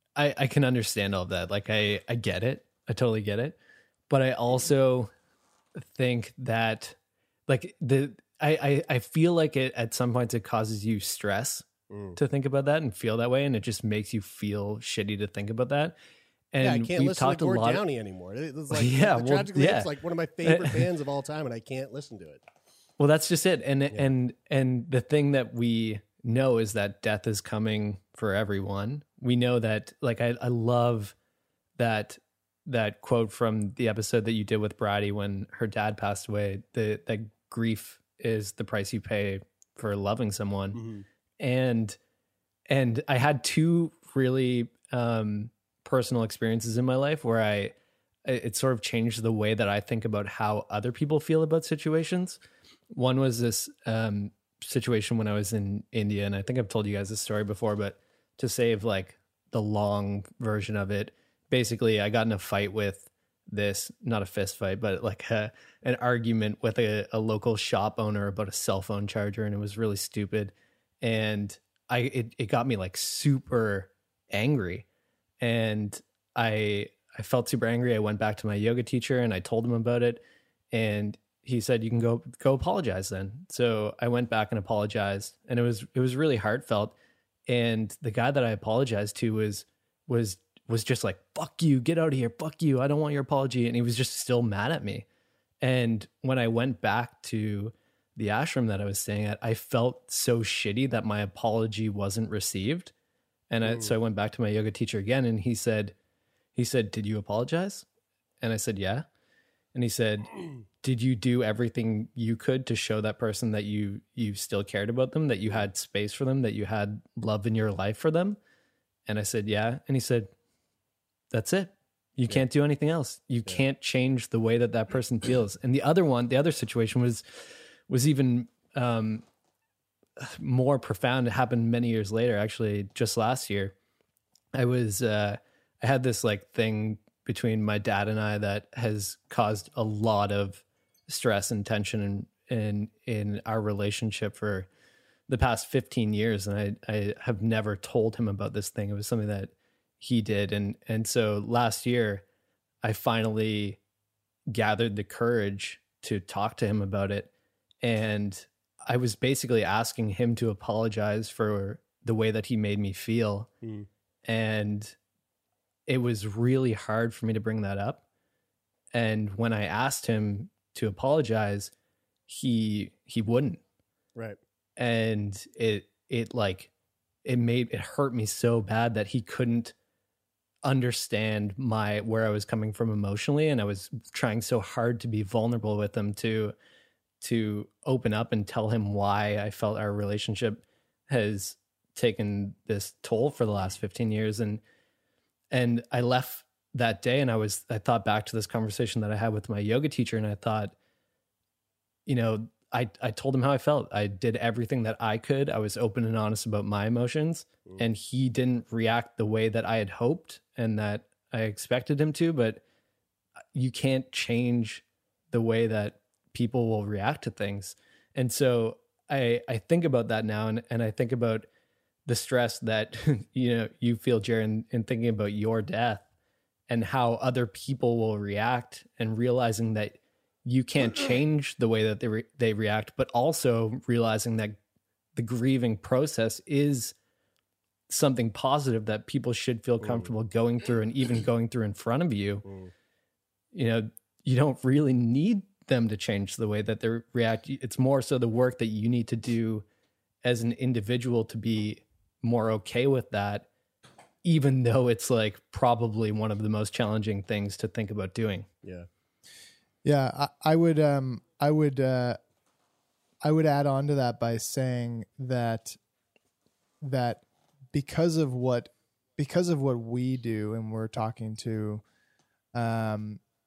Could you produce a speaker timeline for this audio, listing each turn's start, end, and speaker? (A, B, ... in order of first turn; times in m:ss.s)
0:00.2-0:03.6 A
0:04.1-0:05.1 A
0:05.8-0:16.0 A
0:11.9-0:12.2 B
0:16.5-0:17.8 A
0:16.6-0:22.4 B
0:18.7-0:19.9 A
0:20.4-0:20.8 A
0:23.0-0:31.1 A
0:31.8-0:40.8 A
0:40.7-0:41.0 B
0:41.4-0:42.0 A
0:42.7-1:14.8 A
1:15.4-1:26.9 A
1:27.5-1:35.0 A
1:35.6-1:42.9 A
1:43.5-1:45.9 A
1:43.6-1:43.9 B
1:46.5-1:47.8 A
1:48.4-1:49.0 A
1:49.7-1:58.4 A
1:59.1-2:00.3 A
2:01.3-2:09.2 A
2:10.2-2:13.7 A
2:14.5-2:24.7 A
2:25.3-2:32.2 A
2:32.8-2:33.8 A
2:34.5-2:37.3 A
2:37.8-2:43.5 A
2:43.6-2:43.9 B
2:44.2-2:44.9 A
2:45.9-2:48.0 A
2:48.9-2:51.7 A
2:52.3-2:53.6 A
2:54.8-2:56.7 A
2:57.2-2:59.7 A
3:00.6-3:06.5 A
3:07.2-3:14.6 A
3:15.5-3:20.7 A
3:22.0-3:32.6 A
3:33.5-3:41.5 A
3:42.0-3:46.0 A
3:46.7-3:54.6 A
3:55.1-3:56.9 A
3:57.9-4:02.4 A
3:59.8-4:00.1 B
4:02.4-4:02.7 B
4:03.5-4:09.6 A
4:10.2-4:13.5 A
4:14.2-4:18.5 A
4:19.8-4:22.2 C
4:23.2-4:25.8 C
4:26.8-4:31.8 C
4:32.5-4:33.2 C